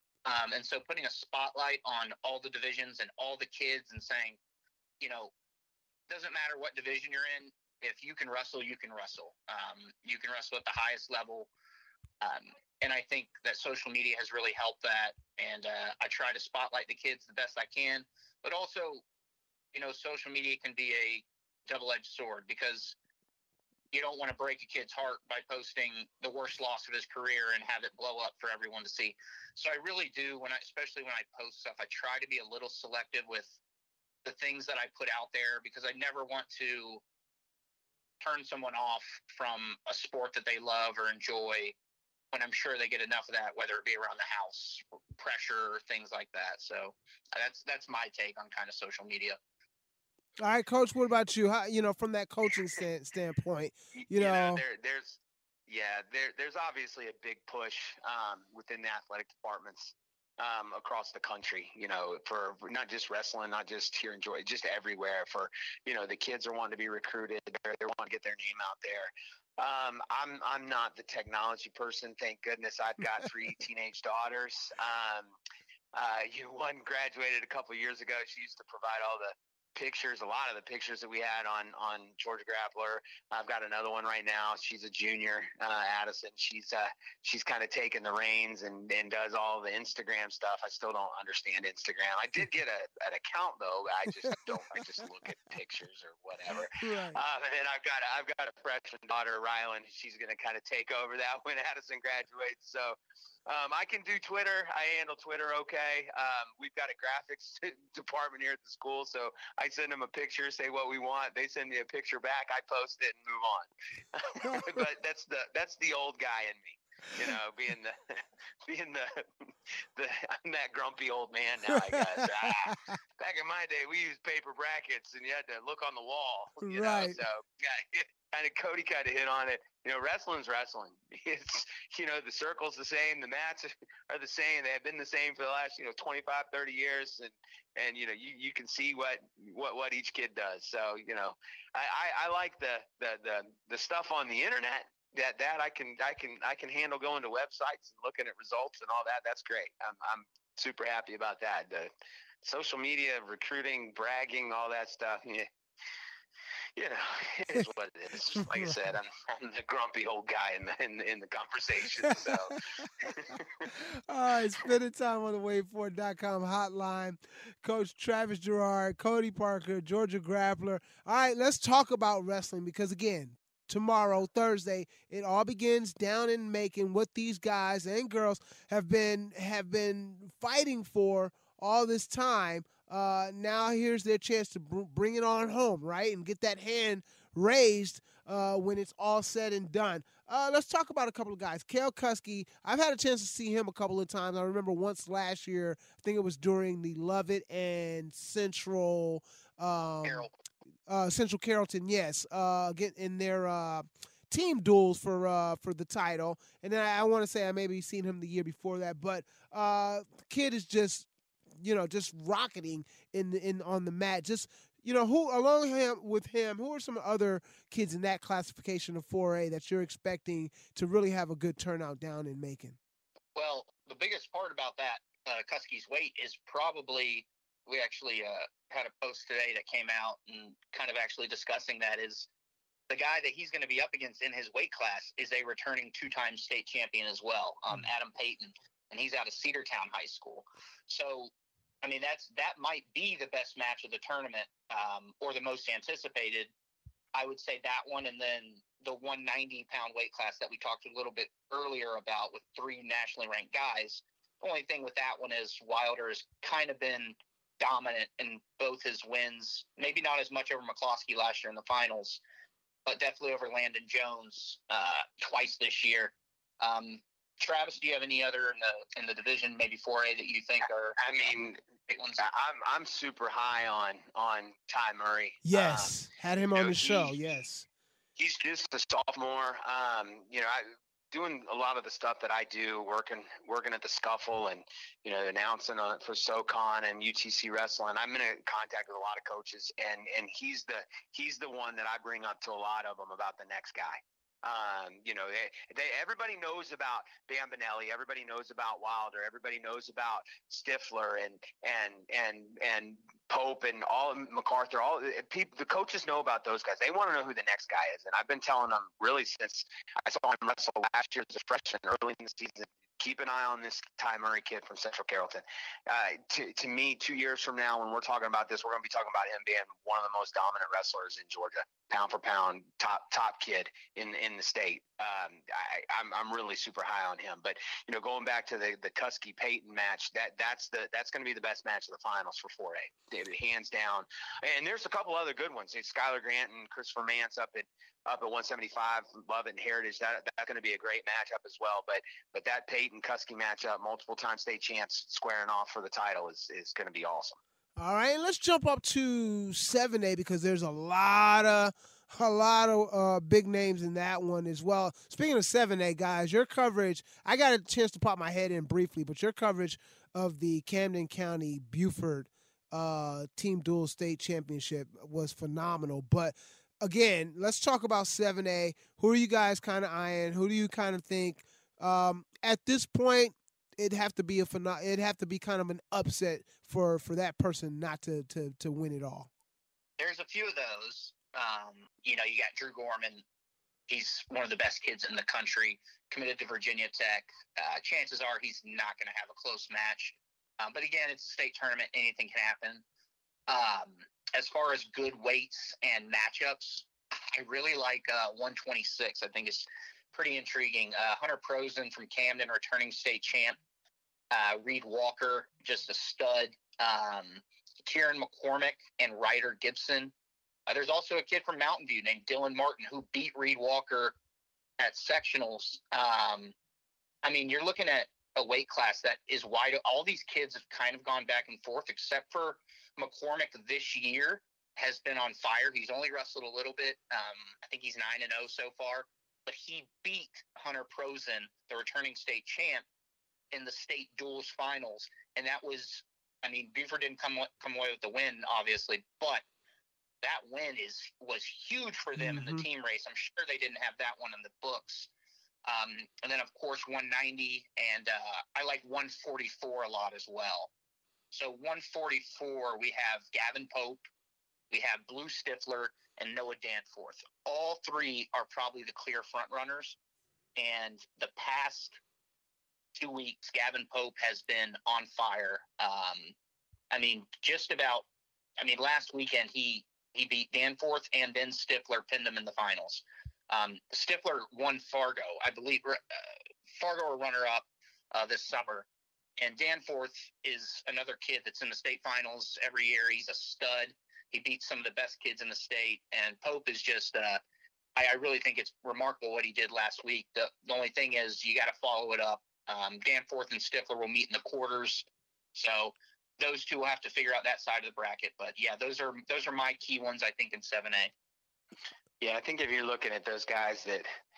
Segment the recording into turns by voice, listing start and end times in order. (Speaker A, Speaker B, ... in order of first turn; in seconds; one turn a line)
Speaker A: 0.3-4.4
Speaker A: 5.0-5.3
Speaker A: 6.1-11.5
Speaker A: 12.2-19.0
Speaker A: 19.7-23.0
Speaker A: 23.9-33.6
Speaker A: 34.2-37.0
Speaker A: 38.2-41.8
Speaker A: 42.3-49.4
Speaker B: 50.4-54.6
Speaker C: 54.0-75.4
Speaker C: 75.9-119.2
Speaker B: 96.8-97.2
Speaker C: 120.0-151.9
Speaker B: 121.9-122.8
Speaker B: 126.6-127.2
Speaker C: 152.4-155.5
Speaker C: 156.8-163.7
Speaker B: 158.4-158.7
Speaker B: 164.1-200.3
Speaker A: 200.0-200.3
Speaker B: 200.9-211.1
Speaker B: 211.6-222.8
Speaker A: 223.4-232.3
Speaker A: 232.9-241.3
Speaker A: 241.8-246.5
Speaker A: 247.2-262.2
Speaker A: 262.9-271.2
Speaker C: 271.0-271.6
Speaker A: 271.9-272.2
Speaker C: 272.2-276.0
Speaker B: 275.4-277.7
Speaker C: 276.6-277.3
Speaker C: 278.2-347.4
Speaker B: 347.8-379.3
Speaker A: 380.0-383.2
Speaker A: 383.9-392.8
Speaker A: 393.5-403.6
Speaker A: 404.3-410.1
Speaker A: 410.7-414.1
Speaker A: 414.8-416.5
Speaker A: 417.2-432.9
Speaker A: 433.5-439.4
Speaker A: 440.2-445.1
Speaker B: 442.2-442.6
Speaker A: 445.7-450.7
Speaker A: 451.3-454.1
Speaker A: 454.7-460.0
Speaker A: 460.6-462.0
Speaker A: 462.9-466.3
Speaker A: 466.9-468.1
Speaker A: 468.6-478.9
Speaker A: 479.4-487.4
Speaker A: 488.0-501.1
Speaker C: 502.2-504.1